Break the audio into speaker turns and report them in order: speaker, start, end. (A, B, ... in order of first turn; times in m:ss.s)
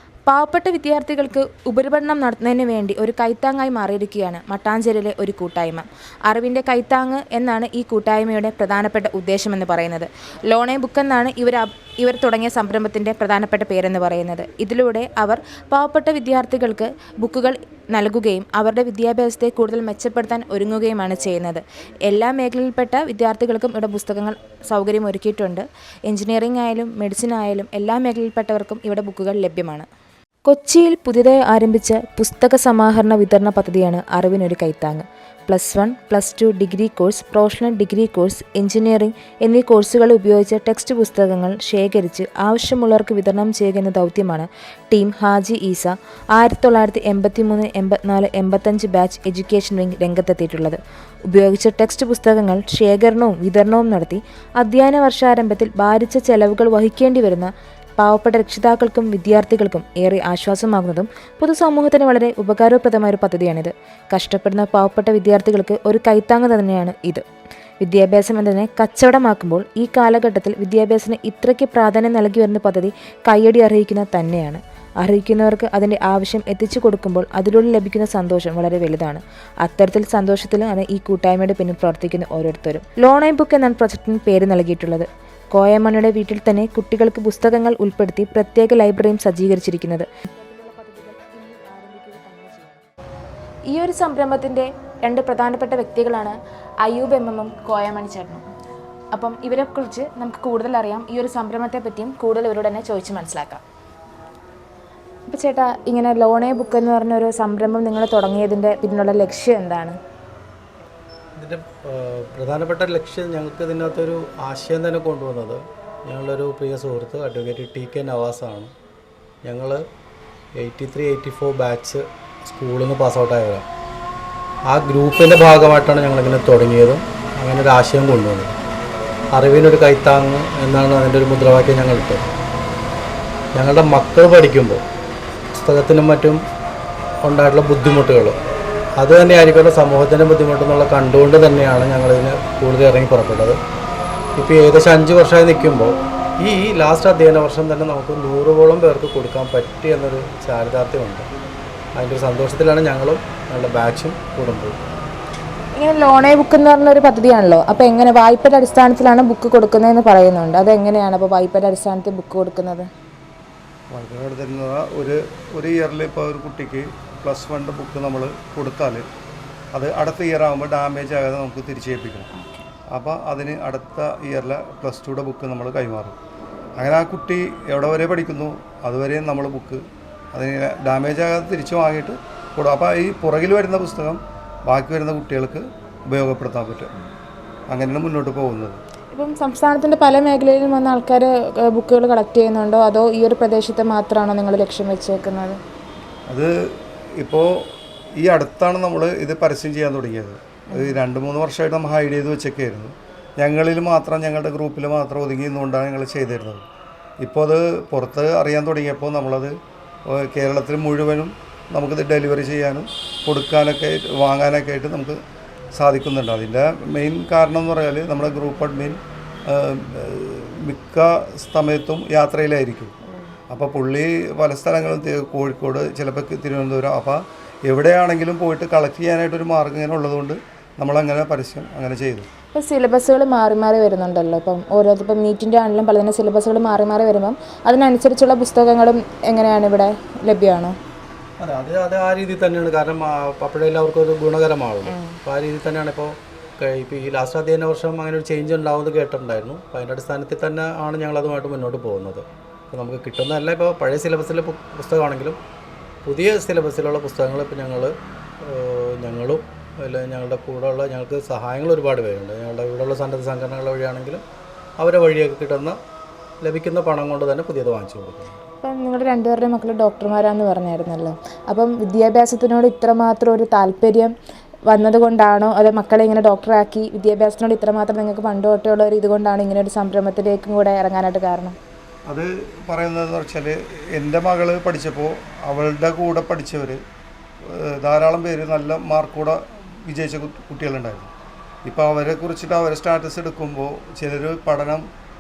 0:00.3-0:29.9 A
0:30.4-1:07.2 A
1:07.8-1:32.8 A
1:33.7-1:38.4 A
1:39.1-1:43.6 A
1:45.3-1:50.0 A
1:51.4-1:58.7 B
1:59.4-1:59.8 B
2:00.6-2:03.6 B
2:04.7-2:08.6 B
2:09.3-2:12.3 B
2:13.6-2:14.8 B
2:15.6-2:16.4 B
2:17.2-2:18.4 B
2:19.0-2:23.6 B
2:24.4-2:31.3 B
2:32.0-2:34.8 B
2:35.8-2:42.9 A
2:43.9-2:49.0 C
2:49.7-2:52.3 C
2:52.4-2:52.6 A
2:52.9-2:56.2 C
2:56.8-2:59.8 C
3:00.3-3:06.9 C
3:07.7-3:08.8 C
3:09.1-3:15.6 A
3:17.2-3:26.6 C
3:20.7-3:21.0 A
3:27.2-3:29.5 C
3:30.1-3:35.2 C
3:35.7-3:42.9 C
3:43.5-3:52.3 C
3:52.5-4:00.8 A
4:01.4-4:15.4 B
4:04.8-4:05.2 A
4:16.0-4:24.2 B
4:24.8-4:25.8 B
4:26.4-4:28.4 B
4:28.6-4:34.1 A
4:34.7-4:41.6 A
4:42.1-4:46.8 C
4:47.4-4:51.1 C
4:51.6-4:54.8 C